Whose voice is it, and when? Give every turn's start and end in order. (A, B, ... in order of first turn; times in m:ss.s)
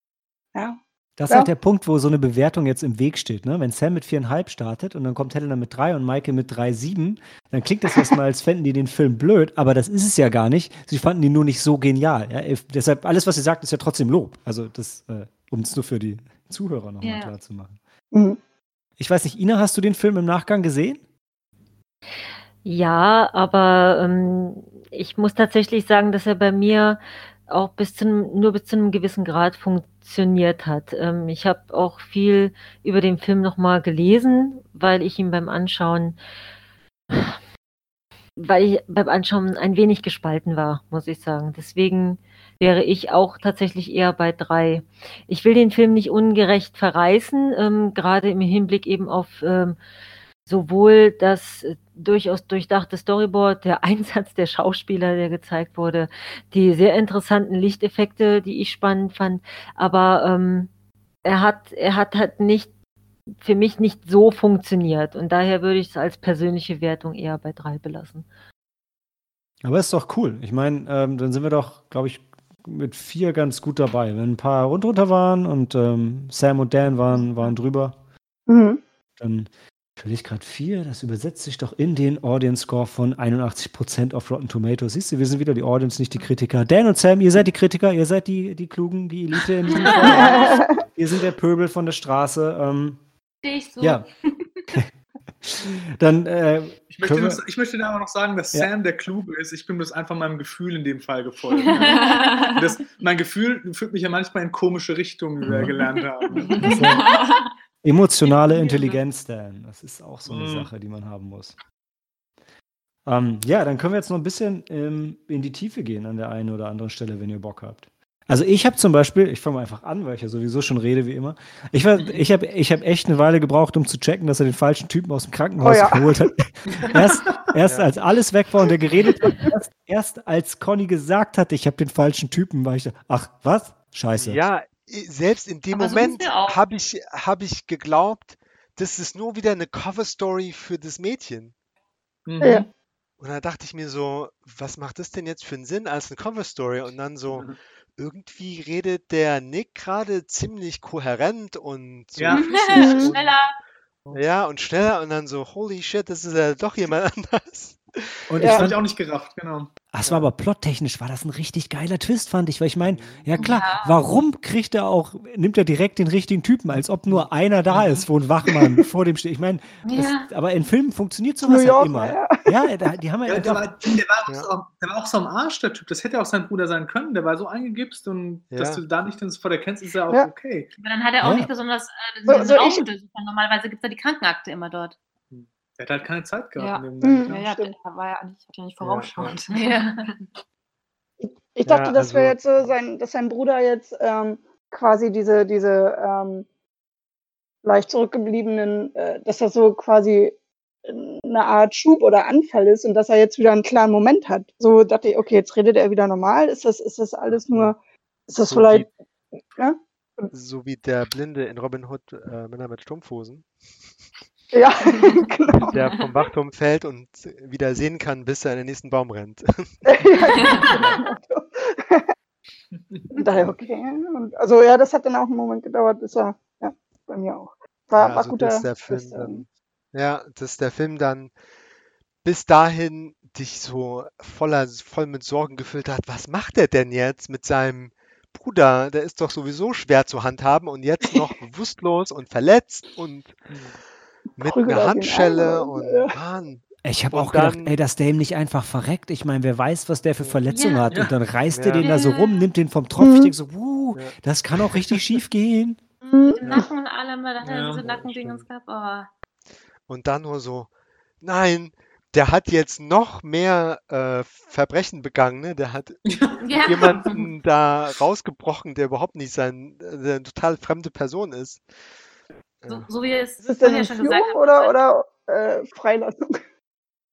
0:00.5-0:01.5 A
0:01.2-0:17.8 B
0:17.0-0:17.3 C
0:18.1-0:18.4 A
0:19.0-0:21.0 B
0:22.6-0:36.2 D
0:38.4-0:49.8 D
0:50.5-1:00.7 D
1:01.2-1:02.7 D
1:03.4-1:08.2 D
1:09.6-1:18.0 B
1:18.5-1:18.8 A
1:19.2-1:33.0 B
1:29.7-1:30.5 C
1:30.1-1:30.8 A
1:33.4-1:34.6 C
1:35.4-1:37.4 B
1:36.9-1:46.7 E
1:41.6-1:42.6 C
1:41.7-1:42.6 F
1:45.4-1:45.8 B
1:46.4-1:47.4 C
1:46.5-1:47.5 F
1:46.6-1:47.0 B
1:47.8-1:51.6 B
1:48.2-1:49.0 C
1:50.3-1:50.7 E
1:53.0-2:14.4 B
2:05.6-2:06.3 A
2:06.8-2:07.3 E
2:07.6-2:07.9 G
2:14.2-2:21.5 G
2:15.7-2:16.6 C
2:22.3-2:22.7 E
2:22.4-2:22.6 A
2:23.2-2:32.6 G
2:32.2-2:33.4 E
2:32.3-2:33.5 C
2:32.7-2:33.1 A
2:34.1-2:38.4 G
2:38.3-2:38.8 B
2:38.4-2:38.7 A
2:38.4-2:39.7 E
2:39.9-2:53.7 B
2:42.8-2:43.4 G
2:43.4-2:44.0 C
2:47.1-2:48.1 E
2:49.8-2:50.3 C
2:51.4-2:52.7 A
2:53.3-3:00.7 E
2:58.5-2:58.8 G
3:00.8-3:05.0 C
3:01.2-3:01.5 B
3:02.3-3:02.8 A
3:05.3-3:07.4 E
3:06.6-3:10.3 F
3:07.0-3:07.7 A
3:08.8-3:09.3 G
3:09.5-3:10.0 C
3:11.2-3:16.5 A
3:11.6-3:12.4 G
3:17.6-3:27.8 A
3:27.3-3:27.7 G
3:28.3-3:28.9 A
3:28.4-3:28.9 G
3:29.6-3:30.3 A
3:30.3-3:33.5 G
3:34.5-3:35.8 A
3:35.7-3:40.0 G
3:39.8-3:42.1 A
3:40.4-3:40.7 F
3:42.7-3:43.0 E
3:43.1-3:49.4 A
3:48.0-3:51.3 G
3:52.2-4:03.4 G
4:03.5-4:03.8 E
4:04.4-4:06.2 A
4:04.4-4:07.8 G
4:06.8-4:15.8 B
4:10.5-4:10.9 C
4:11.5-4:11.9 G
4:11.8-4:12.4 C
4:13.0-4:13.3 A
4:16.0-4:16.6 A
4:16.3-4:19.1 C
4:17.4-4:17.8 E
4:17.8-4:18.4 G
4:19.9-4:31.6 G
4:26.1-4:27.0 E
4:26.4-4:27.3 C
4:32.6-4:32.9 G
4:32.7-4:34.8 C
4:33.4-4:36.2 A